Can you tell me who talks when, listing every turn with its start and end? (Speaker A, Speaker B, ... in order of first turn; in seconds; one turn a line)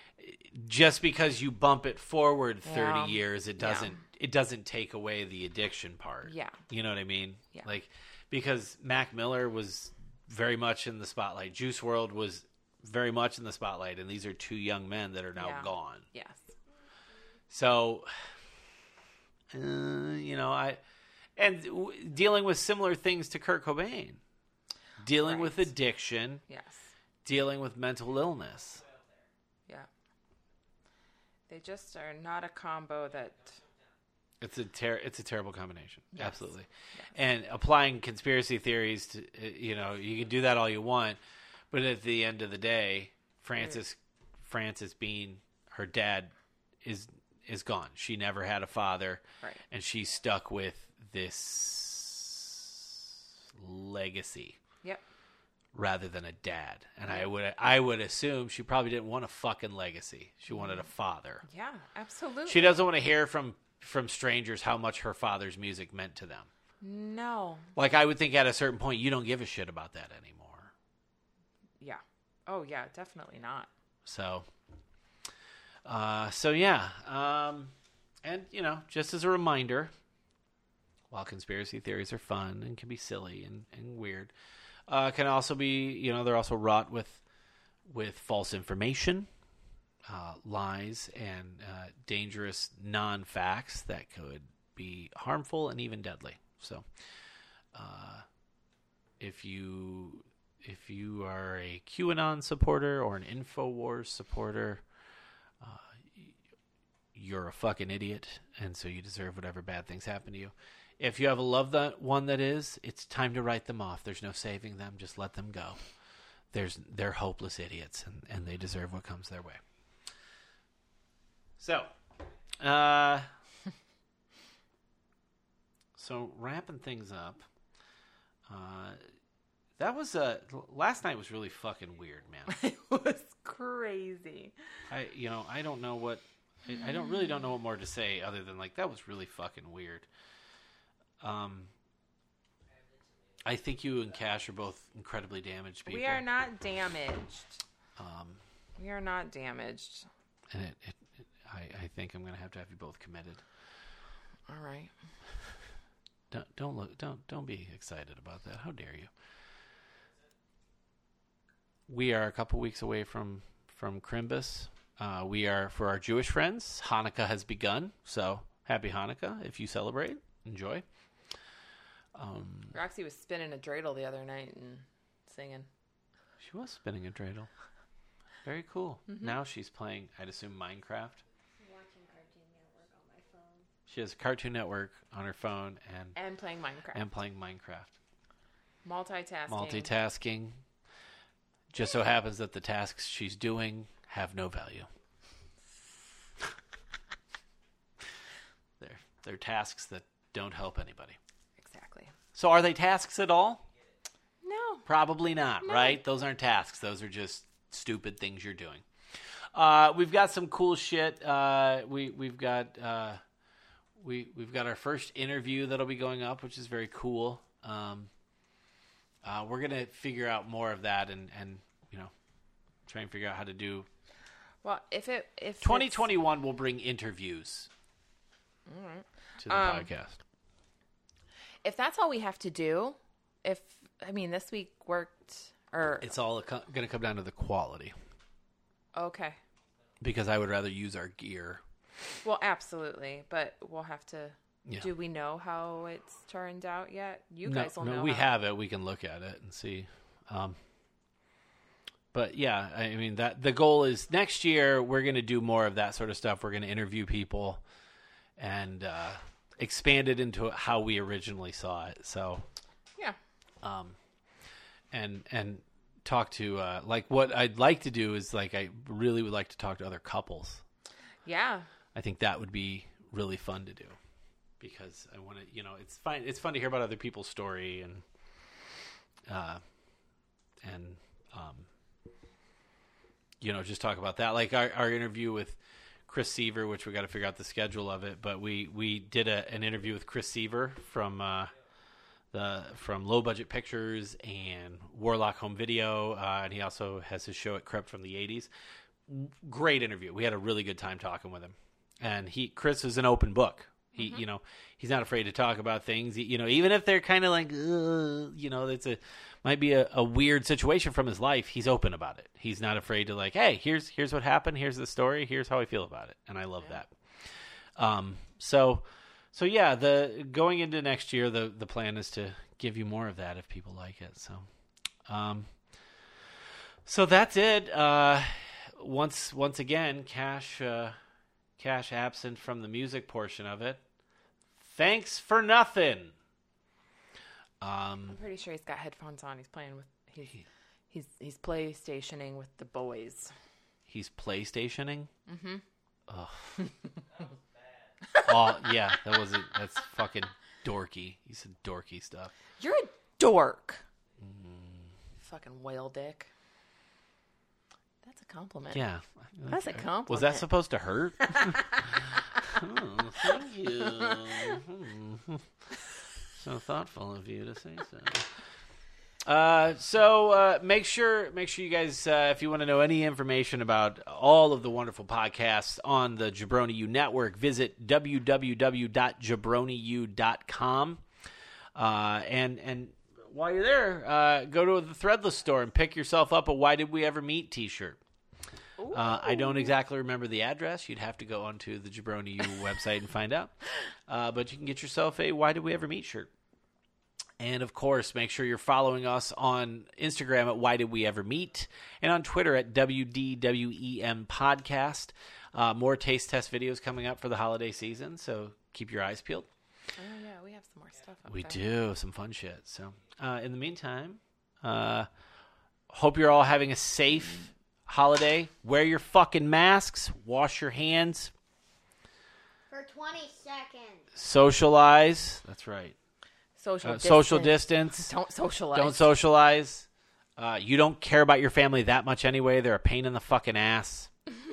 Speaker A: 0.2-16.1
Speaker B: 2.6-4.0
Speaker B: 6.2-6.6
Speaker B: 15.3-16.5
Speaker A: 17.5-18.1
Speaker A: 19.5-20.8
Speaker A: 21.4-24.2
Speaker A: 25.0-26.4
Speaker B: 25.2-25.7
Speaker B: 26.5-26.9
Speaker A: 27.2-28.9
Speaker B: 31.5-33.6
Speaker A: 34.4-41.2
Speaker B: 36.1-37.1
Speaker A: 41.7-46.3
Speaker A: 46.8-54.6
Speaker A: 55.7-61.4
Speaker B: 60.5-60.9
Speaker B: 61.4-62.8
Speaker A: 62.5-66.5
Speaker B: 66.8-67.7
Speaker A: 67.8-70.7
Speaker B: 71.8-73.7
Speaker A: 74.0-74.5
Speaker A: 75.8-79.9
Speaker A: 81.1-84.3
Speaker A: 84.9-87.2
Speaker A: 87.9-89.3
Speaker A: 90.1-96.9
Speaker A: 97.7-98.3
Speaker A: 99.2-104.8
Speaker A: 105.6-106.3
Speaker A: 107.2-115.8
Speaker A: 116.5-119.6
Speaker A: 121.6-121.9
Speaker A: 122.6-123.3
Speaker A: 126.0-127.5
Speaker A: 128.5-129.0
Speaker A: 129.8-132.5
Speaker B: 132.5-134.5
Speaker A: 134.9-140.1
Speaker B: 136.7-137.4
Speaker A: 141.2-141.7
Speaker A: 143.4-146.2
Speaker B: 145.9-147.6
Speaker A: 148.0-148.4
Speaker B: 148.8-150.1
Speaker A: 150.5-153.4
Speaker B: 154.5-154.9
Speaker A: 156.3-159.1
Speaker A: 161.9-170.8
Speaker A: 172.2-172.8
Speaker B: 172.7-175.7
Speaker A: 176.4-177.5
Speaker A: 178.4-181.2
Speaker B: 179.1-179.4
Speaker C: 181.6-183.7
Speaker A: 183.9-186.2
Speaker B: 186.2-187.0
Speaker A: 186.9-187.9
Speaker B: 188.8-189.9
Speaker A: 189.5-190.6
Speaker A: 191.7-194.9
Speaker A: 198.8-201.2
Speaker B: 201.6-202.1
Speaker A: 202.3-203.7
Speaker B: 204.4-204.8
Speaker A: 204.9-208.8
Speaker B: 205.6-206.0
Speaker A: 209.5-213.2
Speaker A: 214.0-218.1
Speaker A: 219.2-222.1
Speaker A: 222.9-223.9
Speaker B: 224.6-226.1
Speaker A: 225.6-227.7
Speaker B: 228.7-229.9
Speaker A: 229.4-230.2
Speaker B: 231.6-236.1
Speaker A: 236.0-237.9
Speaker B: 238.9-239.4
Speaker A: 240.0-241.6
Speaker B: 242.2-248.3
Speaker A: 247.4-250.6
Speaker A: 252.1-257.6
Speaker A: 258.4-262.5
Speaker A: 263.6-264.0
Speaker A: 264.9-270.6
Speaker B: 271.2-271.7
Speaker A: 271.9-274.0
Speaker A: 274.6-278.0
Speaker A: 279.3-279.6
Speaker A: 280.6-281.7
Speaker A: 283.4-291.5
Speaker A: 292.3-298.5
Speaker A: 299.1-324.5
Speaker B: 304.0-304.2
Speaker A: 325.1-325.5
Speaker A: 326.9-331.0
Speaker A: 331.6-333.8
Speaker A: 334.6-336.1
Speaker A: 337.6-338.2
Speaker B: 338.1-343.3
Speaker A: 343.9-345.1
Speaker B: 345.3-345.6
Speaker A: 346.1-346.6
Speaker B: 348.1-348.8
Speaker A: 348.2-352.3
Speaker B: 352.6-353.9
Speaker A: 354.2-354.9
Speaker B: 355.2-356.3
Speaker B: 358.0-358.9
Speaker A: 358.7-365.5
Speaker B: 359.5-360.5
Speaker B: 361.2-362.0
Speaker B: 363.8-364.6
Speaker A: 366.3-368.3
Speaker A: 369.2-381.0
Speaker A: 381.8-388.0
Speaker B: 388.8-389.8
Speaker A: 388.9-396.3
Speaker A: 397.4-409.5
Speaker B: 410.0-411.6
Speaker A: 411.3-415.1
Speaker A: 415.9-421.3
Speaker C: 422.7-424.1
Speaker A: 424.1-426.0
Speaker B: 426.6-429.1
Speaker A: 426.8-428.1
Speaker A: 428.7-434.1